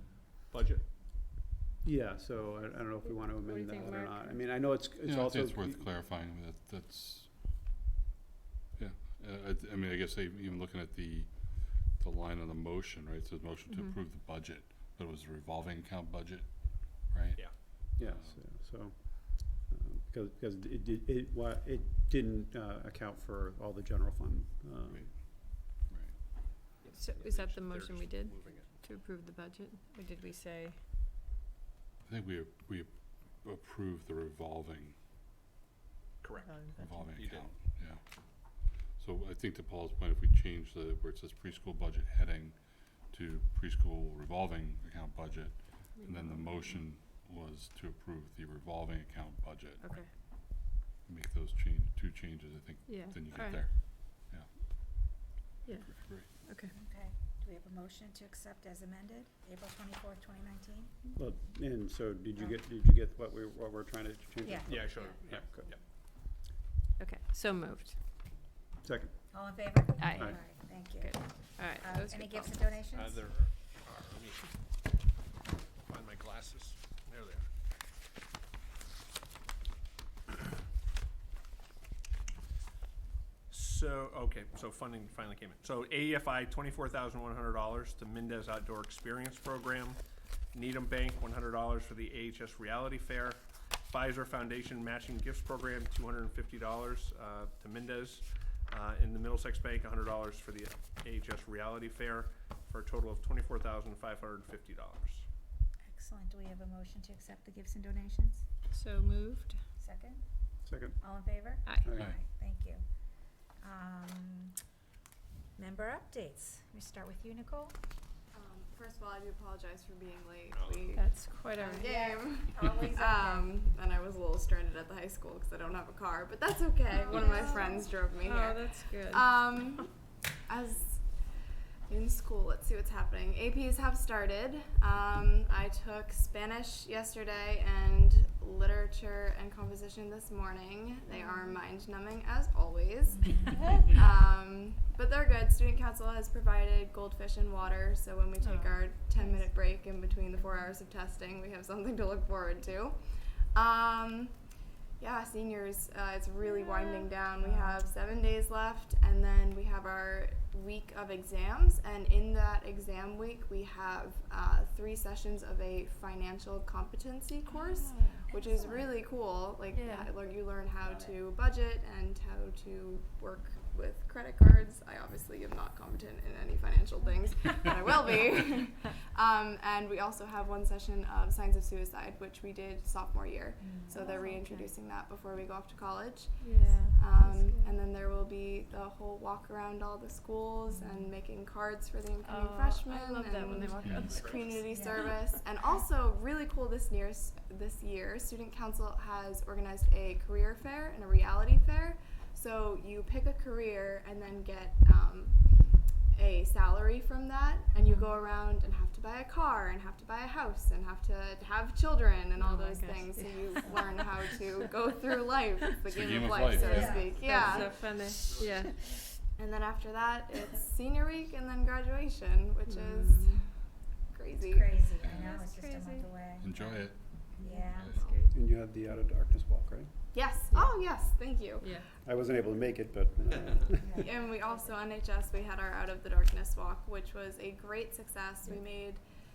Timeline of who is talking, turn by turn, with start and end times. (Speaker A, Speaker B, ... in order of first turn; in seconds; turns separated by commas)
Speaker A: 0.4-0.8, Speaker B: 1.8-5.9, Speaker C: 2.9-4.7, Speaker D: 5.0-7.3, Speaker D: 8.8-18.5, Speaker C: 13.7-14.0, Speaker B: 18.0-25.1, Speaker D: 24.9-26.1, Speaker A: 26.8-28.8, Speaker C: 26.9-30.8, Speaker D: 32.1-35.0, Speaker A: 36.2-37.5, Speaker D: 36.6-50.0, Speaker C: 46.0-46.8, Speaker C: 49.8-50.1, Speaker D: 51.0-54.5, Speaker C: 52.9-53.7, Speaker C: 55.6-56.7, Speaker D: 56.0-56.3, Speaker E: 56.7-60.9, Speaker B: 61.1-65.7, Speaker E: 64.4-65.0, Speaker A: 64.7-65.8, Speaker C: 67.0-68.0, Speaker B: 68.8-69.2, Speaker E: 69.3-73.2, Speaker C: 70.0-72.6, Speaker B: 70.1-70.4, Speaker A: 72.9-74.5, Speaker A: 75.8-77.5, Speaker A: 83.5-90.0, Speaker A: 90.5-105.2, Speaker E: 105.8-108.5, Speaker C: 108.7-109.6, Speaker E: 109.8-110.2, Speaker B: 110.7-111.0, Speaker E: 111.0-112.8, Speaker B: 111.8-112.1, Speaker E: 113.6-114.6, Speaker E: 115.6-117.8, Speaker F: 118.3-129.9, Speaker A: 120.5-120.9, Speaker C: 120.9-121.9, Speaker E: 121.7-123.6, Speaker C: 126.9-129.7, Speaker E: 127.1-127.8, Speaker F: 130.5-131.1, Speaker F: 131.9-153.0, Speaker C: 141.2-141.5, Speaker E: 143.1-143.8, Speaker C: 148.4-149.3, Speaker F: 153.5-154.3, Speaker F: 155.0-205.4, Speaker C: 156.4-157.8, Speaker C: 167.6-168.2, Speaker E: 168.3-168.9, Speaker C: 169.7-170.1, Speaker E: 170.8-171.1, Speaker E: 183.6-184.3, Speaker C: 183.9-184.7, Speaker C: 186.4-187.8, Speaker E: 190.7-191.1, Speaker C: 192.2-194.5, Speaker D: 193.8-194.2, Speaker A: 193.9-194.6, Speaker E: 194.7-195.1, Speaker F: 206.1-217.8, Speaker C: 212.4-214.1, Speaker D: 215.8-217.0, Speaker E: 216.5-218.6, Speaker C: 216.7-218.8, Speaker F: 219.4-223.6, Speaker C: 222.7-223.4, Speaker F: 224.1-224.8, Speaker E: 224.4-226.7, Speaker D: 225.0-225.4, Speaker C: 225.2-226.1, Speaker D: 226.4-228.0, Speaker E: 227.3-228.0, Speaker C: 227.4-228.3, Speaker B: 228.3-229.9, Speaker F: 230.1-231.7, Speaker C: 230.5-230.8, Speaker C: 231.6-231.9, Speaker B: 232.1-234.0, Speaker F: 234.0-239.0